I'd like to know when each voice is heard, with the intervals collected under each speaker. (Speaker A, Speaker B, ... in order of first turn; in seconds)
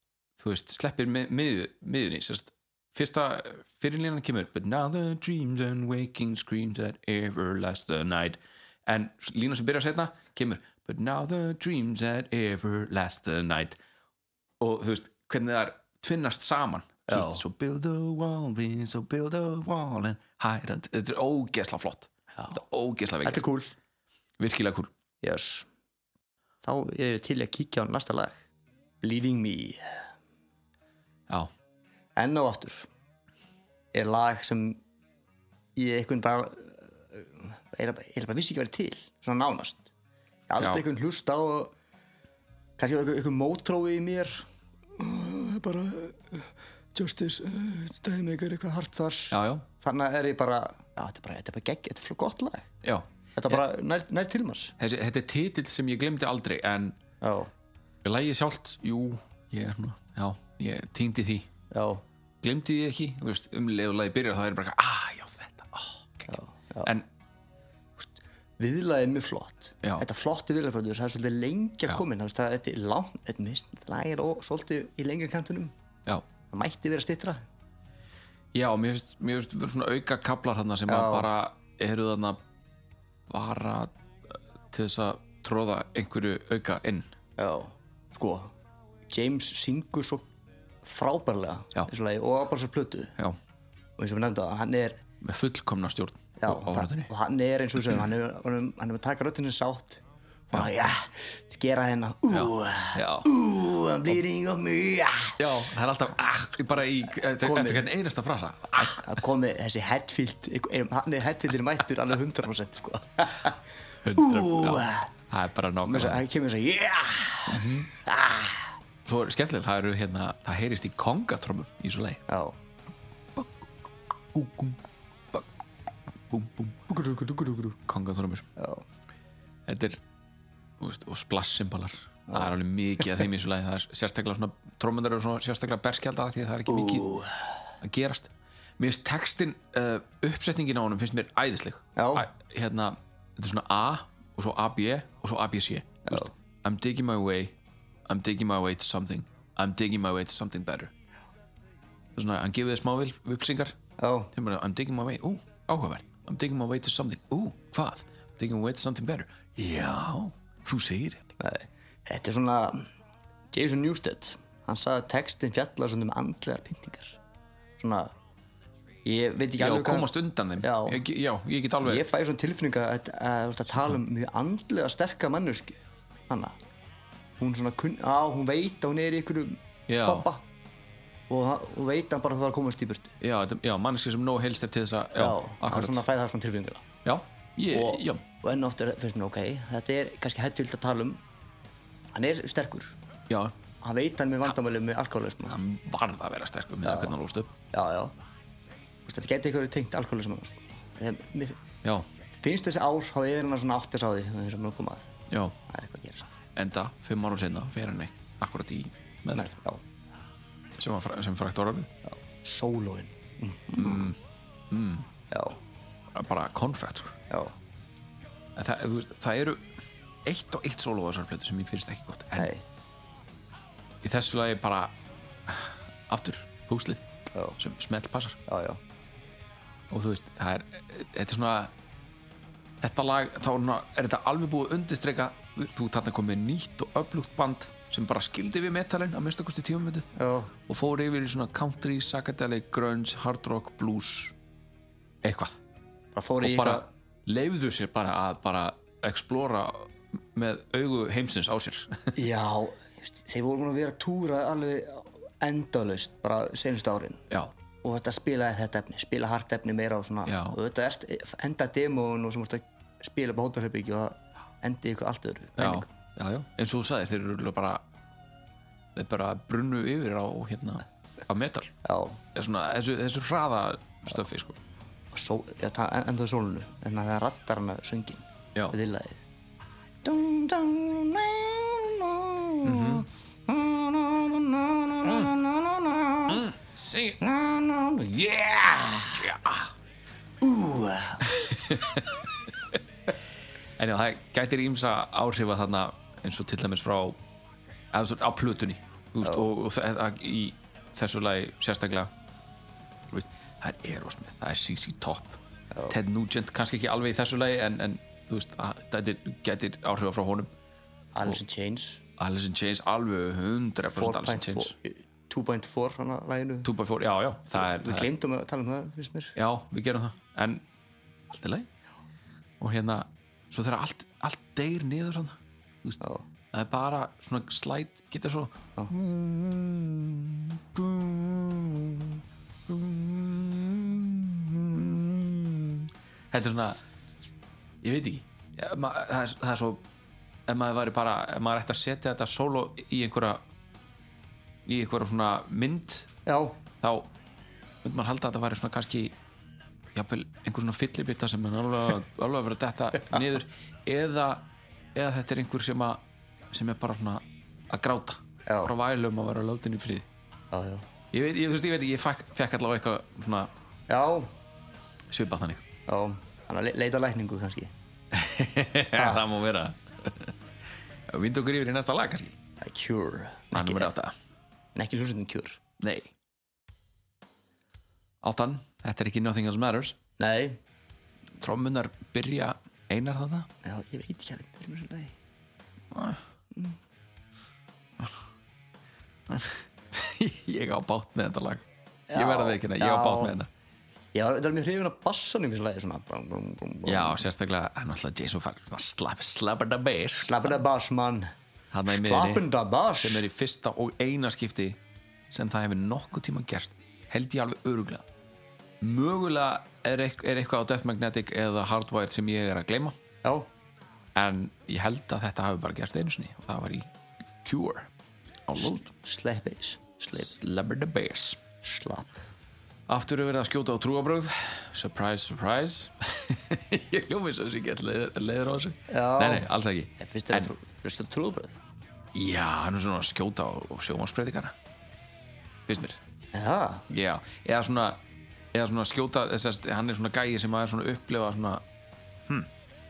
Speaker A: 0.4-13.8, 14.6-23.4, 24.4-24.9, 49.3-49.7, 52.8-53.6, 54.8-57.0, 58.0-61.5, 62.4-67.1, 78.5-82.4, 83.3-87.1, 95.2-97.1, 100.5-100.8, 102.3-103.3, 105.4-109.2, 114.0-116.2, 117.5-117.9, 119.0-122.2, 123.3-123.7, 124.3-124.8, 126.3-126.8, 127.9-128.4, 129.7-130.0, 130.8-137.1, 137.8-147.5, 148.1-150.9, 152.1-153.8, 154.3-161.3, 169.6-172.1, 179.9-180.3, 183.2-186.0, 187.0-188.2, 193.3-193.6, 195.5-197.5, 205.3-205.6, 206.5-209.5, 210.8-211.9, 213.8-214.2, 214.7-215.1, 216.1-217.2, 218.6-219.7, 220.2-222.5, 224.0-224.9, 225.4-228.4, 229.9-231.7, 232.8-240.1, 240.7-244.3, 245.2-245.6, 246.4-252.2, 260.2-260.6, 265.6-267.8, 268.9-271.7, 272.3-274.6, 282.6-283.1, 286.3-287.2, 289.0-289.7, 291.2-292.8, 293.8-297.2, 297.9-302.1, 303.1-310.5, 312.2-314.7, 316.6-318.1, 319.4-320.6, 321.3-321.7, 322.6-326.0, 326.5-336.8, 337.8-339.8, 340.5-343.4, 344.6-346.1, 346.8-347.1, 347.8-349.1, 349.9-360.1, 361.1-363.5, 365.1-365.6, 368.1-370.3, 371.1-372.4, 373.5-374.1, 375.8-376.1, 378.2-380.0, 381.4-383.5, 385.9-386.2, 389.3-393.5, 396.8-400.6, 401.7-404.8, 405.3-408.0, 408.8-412.9, 414.1-416.9, 417.4-417.9, 418.5-418.8, 420.1-421.4, 422.9-430.5, 432.1-434.5, 435.7-436.0, 436.9-438.0, 438.5-441.6
Speaker B: 17.1-17.4, 23.2-23.7, 25.2-25.7, 26.6-28.4, 29.0-30.1, 32.1-32.9, 33.9-34.8, 35.8-39.9, 40.5-41.7, 42.8-44.4, 45.0-52.7, 53.4-54.8, 57.2-57.5, 61.7-62.0, 66.3-66.9, 68.0-75.7, 76.5-77.4, 80.9-81.3, 87.4-88.5, 89.1-90.3, 90.8-93.1, 94.0-95.0, 96.4-105.7, 107.2-107.9, 108.8-113.6, 114.1-115.1, 115.8-118.7, 122.3-122.6, 126.9-127.8, 128.6-128.8, 132.3-132.5, 136.7-137.5, 141.9-142.3, 146.1-146.3, 154.0-154.3, 161.4-162.9, 163.5-167.2, 167.8-168.1, 169.0-171.0, 171.8-176.6, 177.4-180.4, 181.3-183.1, 185.2-186.8, 187.7-191.2, 192.1-192.9, 193.8-195.6, 196.8-197.1, 197.7-198.1, 199.1-201.6, 202.4-205.1, 205.7-206.4, 209.3-209.8, 212.1-214.1, 215.3-215.6, 217.3-217.5, 222.3-222.6, 227.3-227.6, 228.5-228.8, 240.1-240.5, 246.1-246.9, 252.1-257.2, 257.8-265.9, 271.8-272.2, 275.1-279.2, 280.0-286.5, 287.2-289.3, 290.4-291.3, 299.2-299.5, 311.1-312.0, 313.9-316.7, 317.5-319.3, 346.2-346.6, 358.4-358.7, 360.5-360.9, 363.9-364.3, 365.9-367.7, 368.9-369.2, 372.6-373.9, 374.7-375.6, 380.2-380.6, 383.6-385.1, 392.1-393.4, 394.1-397.2, 400.2-401.3, 401.9-403.2, 418.6-420.3, 421.6-422.2, 428.9-431.6, 436.3-436.9